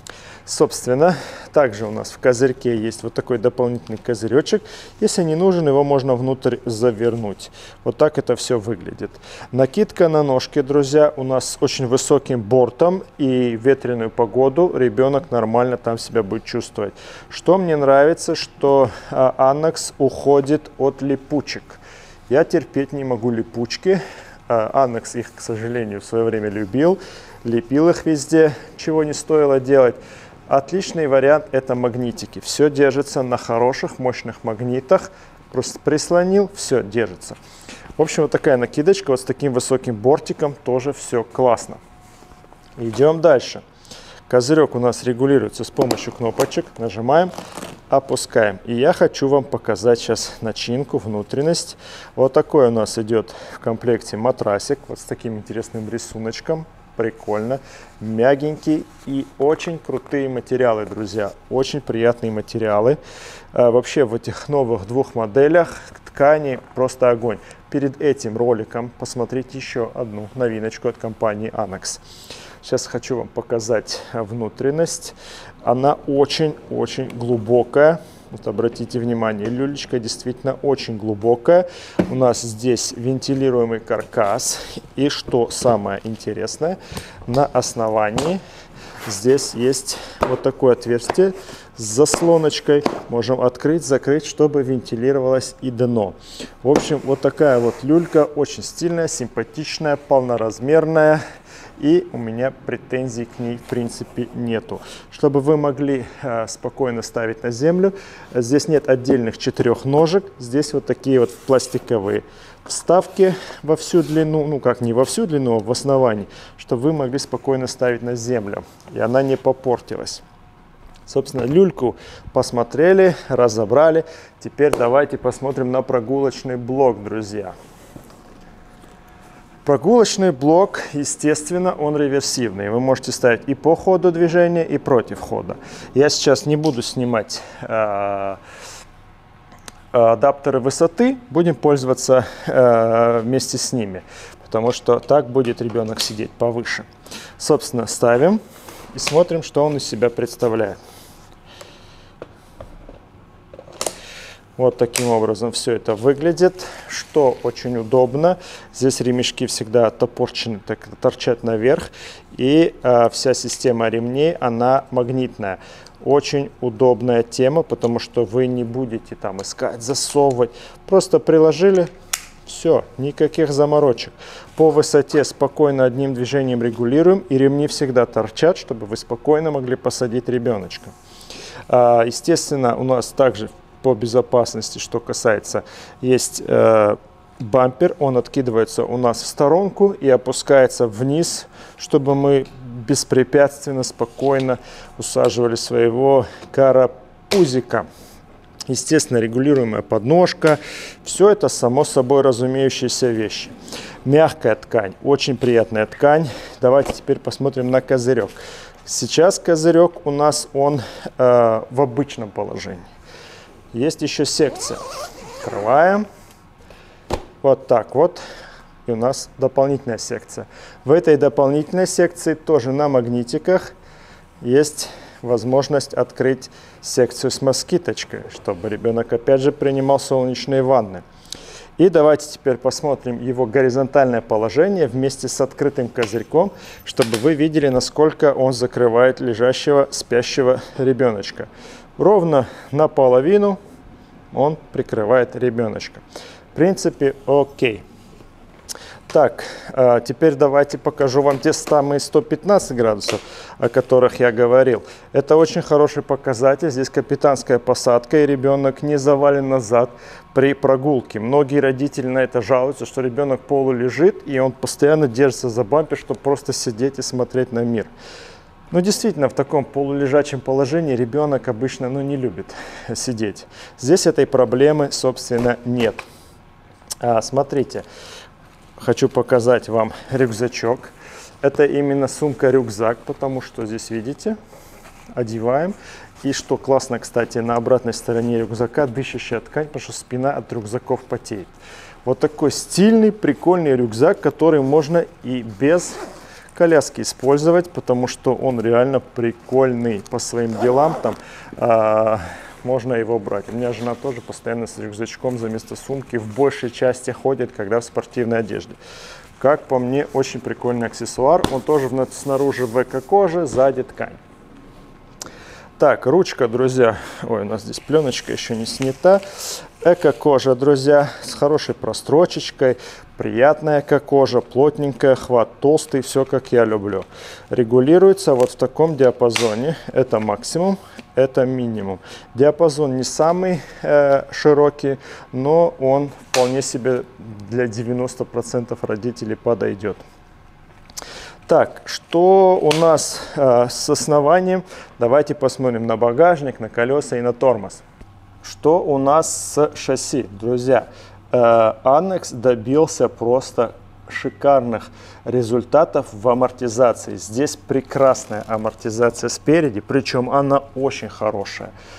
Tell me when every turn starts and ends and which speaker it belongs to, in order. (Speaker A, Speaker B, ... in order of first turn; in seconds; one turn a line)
Speaker A: 0.5-37.4
Speaker A: 38.0-41.8
Speaker A: 42.8-43.6
Speaker A: 44.3-47.3
Speaker A: 47.9-63.0
Speaker A: 63.5-72.0
Speaker A: 72.6-88.4
Speaker A: 89.0-101.2
Speaker A: 101.8-120.2
Speaker A: 121.1-127.5
Speaker A: 129.7-138.4
Speaker A: 139.9-146.9
Speaker A: 147.4-148.4
Speaker A: 148.9-150.8
Speaker A: 154.6-171.9
Speaker A: 172.5-180.9
Speaker A: 181.7-197.9
Speaker A: 198.7-203.5
Speaker A: 204.1-212.8
Speaker A: 213.7-214.8
Speaker A: 215.4-216.0
Speaker A: 217.4-218.2
Speaker A: 218.9-223.7
Speaker A: 224.4-231.0
Speaker A: 231.8-243.6
Speaker A: 244.3-246.0
Speaker A: 246.5-247.8
Speaker A: 249.1-267.9
Speaker A: 268.7-276.1
Speaker A: 277.0-277.9
Speaker A: 278.8-284.4
Speaker A: 285.1-291.5
Speaker A: 292.1-296.0
Speaker A: 296.6-308.8
Speaker A: 309.4-314.2
Speaker A: 315.8-340.0
Speaker A: 341.5-347.8
Speaker A: 348.4-361.7